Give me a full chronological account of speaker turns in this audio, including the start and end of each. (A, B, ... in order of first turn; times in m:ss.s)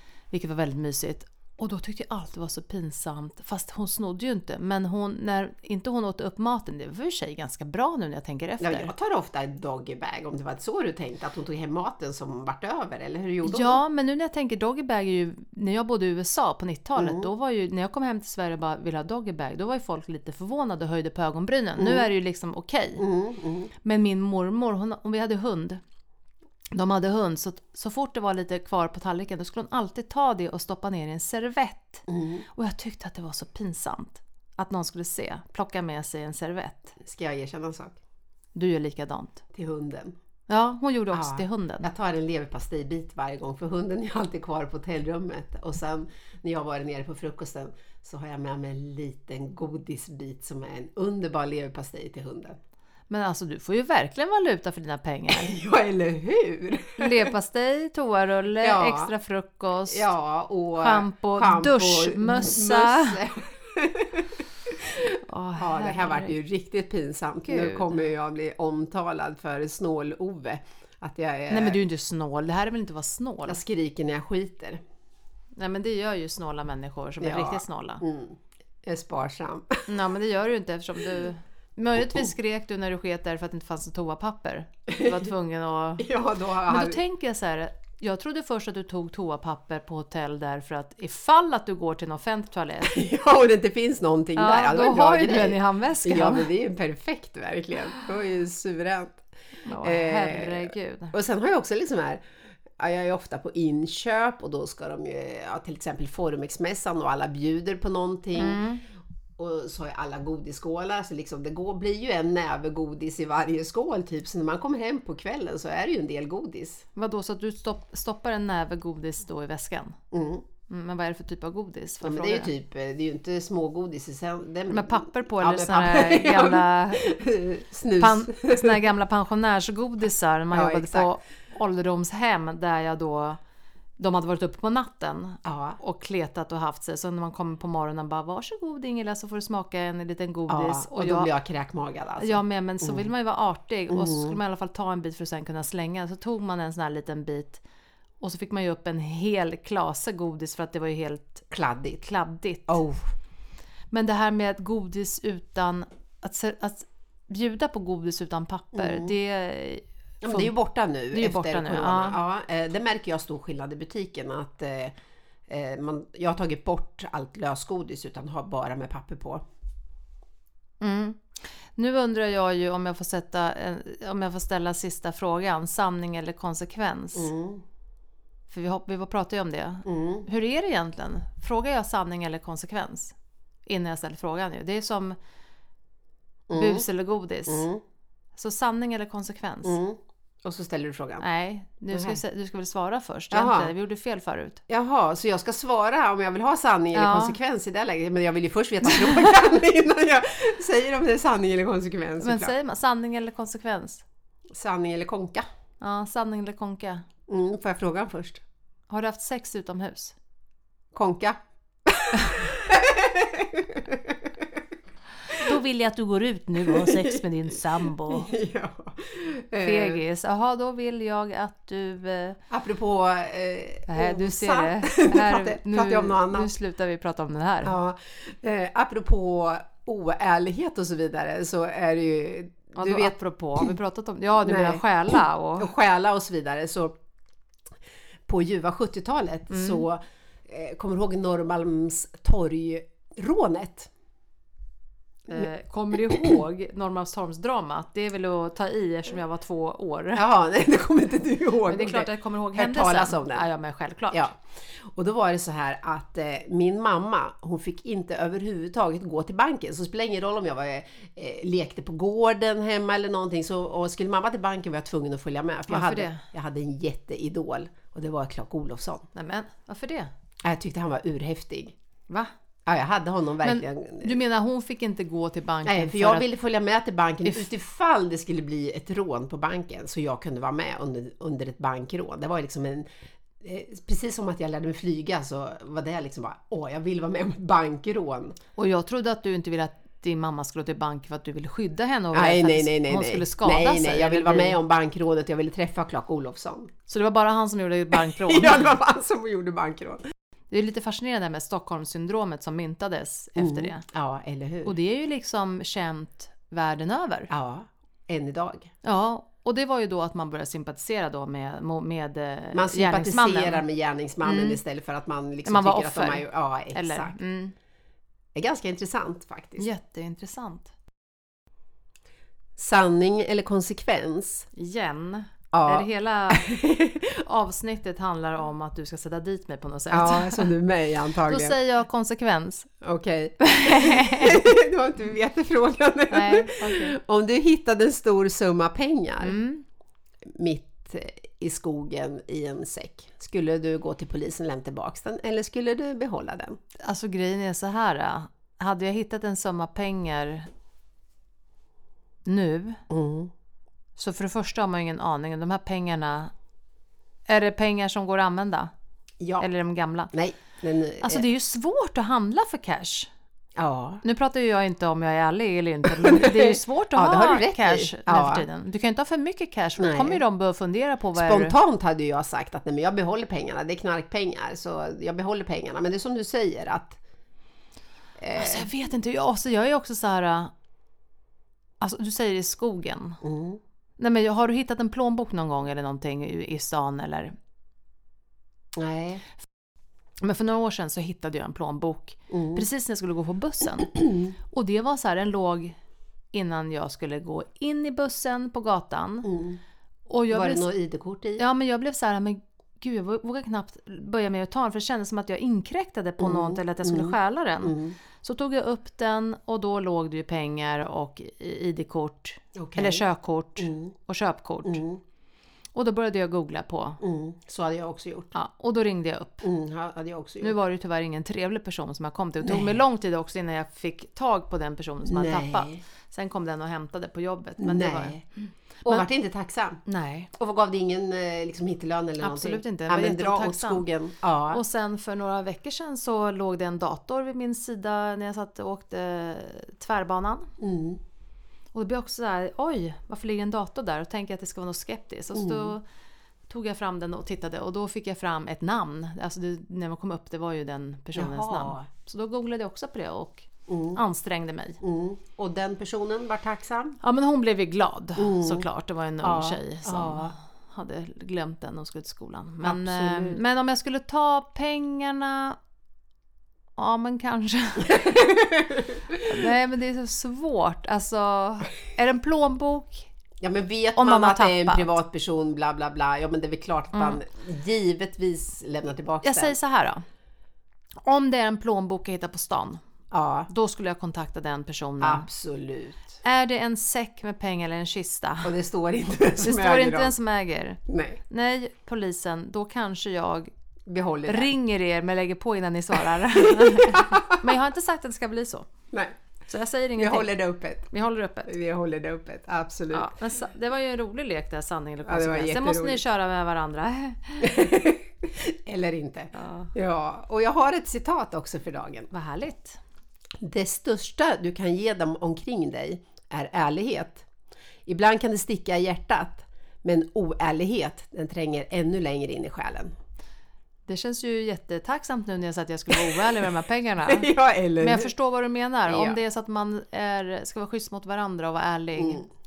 0:00.3-0:08.9 A
0:08.6-0:13.8 B
0:13.4-0:23.0 A
0:17.0-0:17.3 B
0:21.8-0:22.1 B
0:23.0-0:23.7 B
0:23.8-0:25.8 A
0:26.8-0:37.0 A
0:32.1-0:32.5 B
0:37.0-0:38.0 B
0:38.6-0:39.4 A
0:39.5-0:40.2 B
0:40.5-0:41.9 A
0:41.1-0:52.6 B
0:53.1-0:55.6 A
0:55.3-0:57.3 B
0:57.0-1:00.1 A
0:58.6-0:59.1 B
0:59.9-1:11.8 B
1:00.8-1:03.2 A
1:05.1-1:06.3 A
1:07.5-1:08.0 A
1:11.5-1:13.6 A
1:13.5-1:14.8 B
1:15.6-1:18.0 A
1:17.2-1:19.9 B
1:19.9-1:26.1 A
1:26.0-1:27.0 B
1:26.7-1:33.0 A
1:32.8-1:39.2 B
1:34.4-1:36.5 A
1:39.7-1:41.1 A
1:39.8-1:42.2 B
1:42.8-1:48.6 B
1:48.4-1:48.8 A
1:49.4-1:56.8 B
1:57.0-2:00.0 A
2:00.1-2:00.4 B
2:00.7-2:02.5 A
2:02.0-2:08.9 B
2:04.7-2:07.2 A
2:08.0-2:13.4 A
2:10.5-2:11.1 B
2:14.0-2:21.3 A
2:15.4-2:15.8 B
2:20.5-2:23.1 B
2:22.2-2:27.6 A
2:23.9-2:24.4 B
2:28.2-2:31.5 A
2:31.5-2:32.0 B
2:32.0-2:32.8 A
2:32.7-2:33.1 B
2:33.9-2:40.5 A
2:38.7-2:39.1 B
2:40.2-2:44.9 B
2:41.1-2:42.2 A
2:45.5-2:49.4 B
2:50.8-2:51.2 A
2:51.8-2:57.3 A
2:57.2-2:57.6 B
2:58.5-3:03.2 A
2:59.8-3:00.3 B
3:03.7-3:05.2 A
3:06.5-3:06.9 B
3:06.5-3:07.7 A
3:07.5-3:07.8 B
3:08.4-3:09.8 A
3:09.6-3:11.2 B
3:11.2-3:14.6 A
3:11.9-3:12.2 B
3:13.3-3:13.7 B
3:14.7-3:22.5 B
3:16.9-3:17.4 A
3:18.9-3:19.3 A
3:22.2-3:24.0 A
3:24.5-3:25.4 B
3:25.8-3:27.0 A
3:27.3-3:28.4 B
3:28.9-3:30.2 A
3:30.9-3:34.3 B
3:35.4-3:38.3 A
3:36.7-3:40.0 B
3:39.6-3:42.4 A
3:42.5-3:46.5 B
3:43.9-3:47.7 A
3:47.6-3:53.7 B
3:52.8-3:55.7 A
3:54.4-3:56.9 B
3:58.3-4:03.9 B
3:59.5-3:59.9 A
4:05.3-4:10.2 A
4:10.2-4:13.5 B
4:11.7-4:14.3 A
4:14.1-4:14.4 B
4:14.9-4:29.1 B
4:25.7-4:26.2 A
4:29.1-4:30.1 A
4:30.4-4:31.8 B
4:32.7-4:34.2 B
4:33.4-4:36.3 A
4:35.6-4:42.9 B
4:37.2-4:37.5 A
4:43.4-4:48.4 B
4:48.6-4:54.6 A
4:52.1-4:56.7 B
4:56.9-4:58.8 A
4:57.9-5:00.0 B
5:00.5-5:03.8 A
5:03.4-5:04.8 B
5:04.6-5:07.3 A
5:07.3-5:08.7 B
5:08.8-5:13.6 A
5:12.5-5:17.2 B
5:14.2-5:14.6 A
5:15.4-5:17.5 A
5:18.4-5:19.7 B
5:19.6-5:20.7 A
5:22.6-5:24.5 B
5:24.6-5:26.5 A
5:25.5-5:27.2 B
5:27.2-5:30.5 A
5:29.9-5:31.6 B
5:31.3-5:32.7 A
5:32.8-5:39.4 B
5:33.4-5:34.4 A
5:36.1-5:37.0 A
5:39.2-5:39.6 A
5:40.4-5:46.6 B
5:46.8-5:50.5 A
5:52.3-5:52.8 A
5:52.9-5:53.3 B
5:54.0-5:56.3 A
5:57.3-5:58.7 A
5:59.2-5:59.5 B
5:59.4-6:00.1 A
6:00.1-6:01.3 B
6:01.0-6:03.1 A
6:03.6-6:04.0 B
6:04.0-6:11.5 A
6:06.0-6:08.5 B
6:09.8-6:10.2 B
6:11.2-6:17.0 B
6:18.2-6:18.7 B
6:18.4-6:20.5 A
6:21.8-6:23.2 A
6:23.2-6:23.6 B
6:24.0-6:27.3 A
6:28.8-6:29.2 B
6:30.2-6:35.8 A
6:32.3-6:32.6 B
6:36.3-6:39.3 A
6:39.2-6:39.6 B
6:40.1-6:40.7 A
6:40.3-6:41.4 B
6:41.4-6:54.8 A
6:46.2-6:48.0 B
6:52.6-6:53.0 B
6:53.6-6:53.9 B
6:54.6-6:55.0 B
6:55.8-6:57.0 A
6:57.0-6:58.3 B
6:58.3-6:59.5 A
6:59.4-7:00.6 B
7:00.4-7:09.1 A
7:02.4-7:02.8 B
7:05.0-7:05.8 B
7:07.6-7:08.2 B
7:08.9-7:09.8 B
7:09.9-7:10.3 A
7:10.4-7:14.6 B
7:12.2-7:13.8 A
7:14.5-7:20.5 A
7:20.6-7:21.0 B
7:21.7-7:25.8 A
7:25.4-7:25.8 B
7:26.5-7:34.8 A
7:31.2-7:31.9 B
7:33.7-7:34.0 B
7:34.8-7:37.0 B
7:37.0-7:45.6 A
7:38.2-7:38.7 B
7:39.2-7:40.3 B
7:42.6-7:43.4 B
7:46.8-7:48.0 A
7:47.9-7:49.2 B
7:49.2-7:53.1 A
7:53.4-7:59.6 B
7:54.0-7:54.9 A
7:56.9-7:57.2 A
7:59.2-8:00.0 A
8:01.0-8:02.8 A
8:03.1-8:03.5 B
8:03.5-8:05.3 A
8:05.0-8:06.2 B
8:06.2-8:08.5 A
8:08.4-8:10.2 B
8:09.4-8:13.5 A
8:10.9-8:11.2 B
8:13.9-8:14.5 B
8:14.3-8:18.7 A
8:16.6-8:17.2 B
8:19.4-8:20.3 A
8:20.0-8:20.9 B
8:20.9-8:21.5 A
8:21.5-8:23.1 B
8:22.9-8:27.6 A
8:25.0-8:26.0 B
8:27.4-8:32.1 B
8:29.3-8:29.7 A
8:32.1-8:32.8 A
8:33.4-8:37.3 B
8:37.9-8:42.9 B
8:43.9-8:47.3 A
8:47.0-8:48.1 B
8:47.8-8:52.2 A
8:48.9-8:49.2 B
8:52.0-8:52.2 B